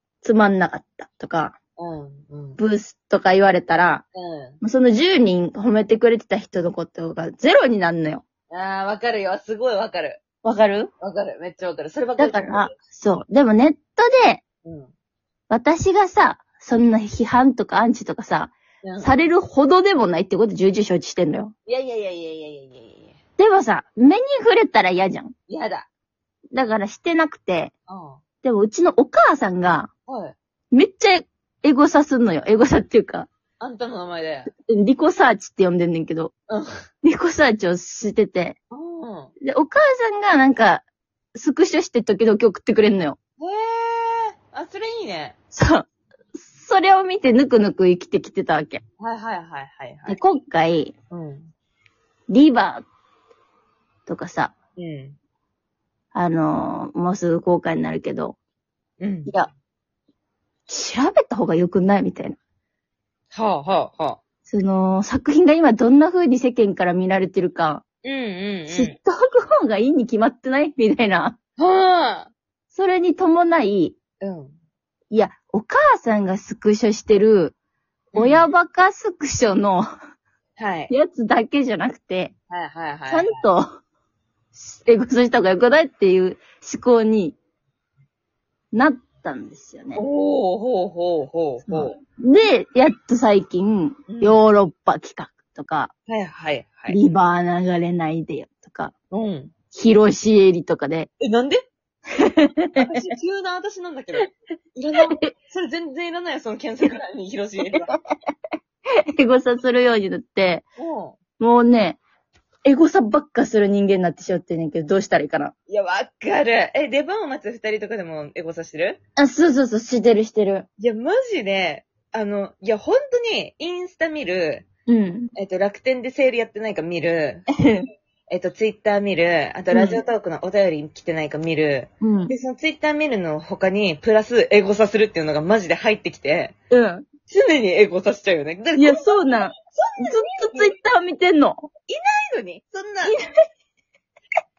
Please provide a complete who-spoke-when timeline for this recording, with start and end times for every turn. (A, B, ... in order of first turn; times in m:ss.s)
0:00.2-0:01.6 A
0:01.8-0:02.6 B
0:02.6-0:04.0 A
0:04.1-0:04.6 B
0:04.6-0:08.2 A
0:08.5-0:10.2 B
0:10.4-0:10.9 A
0:11.0-0:12.7 B
0:12.2-0:14.4 A
0:14.6-0:14.9 B
0:15.5-0:21.5 A
0:18.8-0:19.1 B
0:21.6-0:23.2 B
0:23.4-0:25.3 A
0:25.5-0:25.9 B
0:26.5-0:27.7 A
0:27.9-0:28.2 B
0:28.4-0:29.9 A
0:30.1-0:30.3 B
0:30.7-0:33.3 A
0:33.6-0:34.5 B
0:34.6-0:36.3 A
0:37.0-0:38.6 A
0:38.7-0:39.3 B
0:39.4-0:43.2 A
0:43.4-0:45.4 B
0:45.5-0:48.8 A
0:49.0-0:50.2 B
0:50.0-0:50.9 A
0:51.1-0:51.5 B
0:52.3-0:52.8 A
0:54.1-0:54.5 A
0:54.8-0:55.2 B
0:56.1-0:58.4 A
0:59.0-0:59.3 B
1:00.7-1:02.4 A
1:03.3-1:04.2 B
1:04.5-1:07.8 A
1:08.0-1:09.0 B
1:08.7-1:11.4 A
1:11.6-1:12.3 B
1:12.7-1:14.0 A
1:14.2-1:14.6 B
1:15.1-1:17.5 A
1:18.1-1:18.5 B
1:18.1-1:19.9 A
1:20.6-1:20.9 B
1:20.9-1:22.3 A
1:22.5-1:23.5 B
1:23.1-1:23.6 A
1:24.5-1:27.4 A
1:28.7-1:30.0 A
1:29.9-1:32.0 B
1:31.6-1:35.9 A
1:34.1-1:34.4 B
1:36.1-1:37.0 B
1:36.9-1:38.9 A
1:39.1-1:39.5 B
1:39.7-1:41.1 A
1:41.2-1:41.6 B
1:42.1-1:43.0 A
1:42.8-1:47.9 B
1:49.2-1:50.6 A
1:50.8-1:51.2 B
1:51.4-1:52.0 A
1:52.6-1:55.5 A
1:55.7-1:59.0 B
1:59.2-2:00.7 A
2:00.8-2:04.6 B
2:04.9-2:05.3 A
2:05.3-2:07.5 B
2:07.6-2:07.9 A
2:08.3-2:16.5 B
2:09.7-2:10.0 A
2:12.0-2:12.3 A
2:16.7-2:17.0 A
2:17.3-2:19.2 B
2:18.8-2:21.7 A
2:19.8-2:20.7 B
2:21.9-2:23.2 B